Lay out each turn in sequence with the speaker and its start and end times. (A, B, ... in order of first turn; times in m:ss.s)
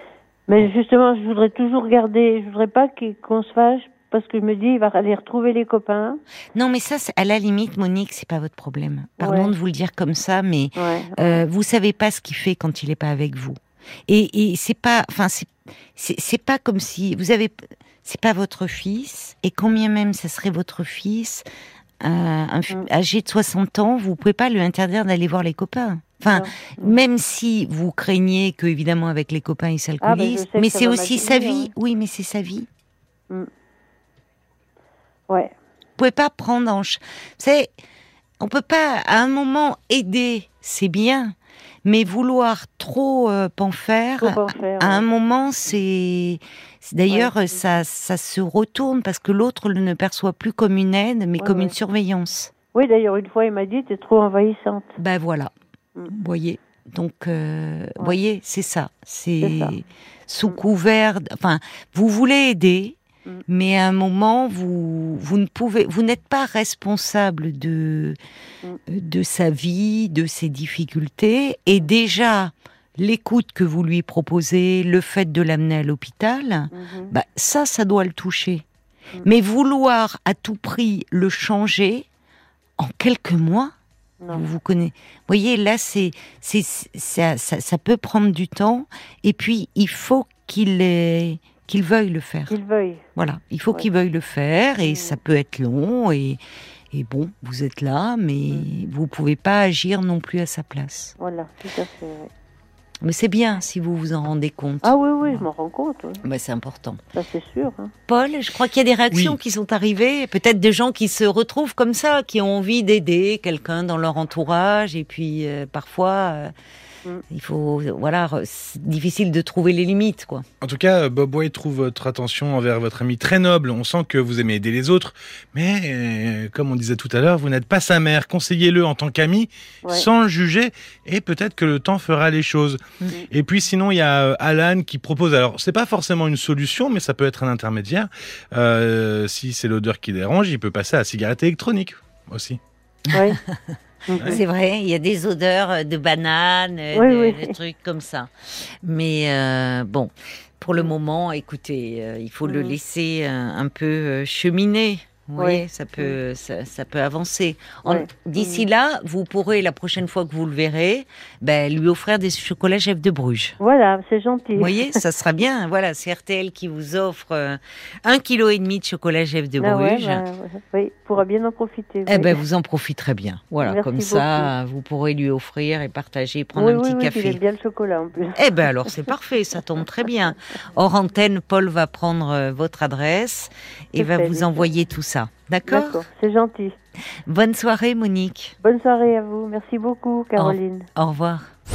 0:00.5-0:06.2 A
0:06.6-0:21.4 B
0:09.2-0:09.5 A
0:10.8-0:11.4 A
0:22.0-0:32.7 B
0:26.3-0:27.0 A
0:30.0-0:31.7 A
0:36.0-0:37.7 B
0:38.4-0:52.5 B
0:44.2-0:45.0 A
0:51.4-0:51.7 A
0:52.7-0:55.0 A
0:55.0-0:55.5 B
0:56.1-1:03.0 B
0:59.4-0:59.7 A
1:03.5-1:08.2 B
1:08.9-1:18.6 B
1:16.7-1:17.1 A
1:19.2-1:22.1 B
1:22.8-1:23.7 B
1:24.3-1:32.6 B
1:32.5-1:33.1 A
1:33.2-1:36.4 B
1:34.8-1:35.2 A
1:36.9-1:41.1 B
1:41.2-1:42.3 A
1:43.0-1:45.4 B
1:44.8-1:46.2 A
1:46.2-1:47.0 B
1:47.1-1:47.9 A
1:48.1-1:56.5 B
1:57.3-2:00.5 B
2:00.6-2:22.6 C
2:23.1-2:23.4 A
2:24.1-2:24.4 A
2:24.2-2:28.3 B
2:26.9-2:27.6 A
2:28.8-2:43.6 B
2:32.4-2:32.8 A
2:35.4-2:36.2 A
2:37.8-2:38.7 A
2:43.6-2:45.0 A
2:44.6-2:50.2 B
2:49.6-2:52.4 A
2:52.1-2:57.4 B
2:53.6-2:54.5 A
2:56.6-2:59.1 A
2:58.4-3:06.0 B
3:04.0-3:04.7 A
3:05.7-3:06.8 A
3:07.3-3:08.6 B
3:08.6-3:10.9 A
3:10.4-3:11.5 B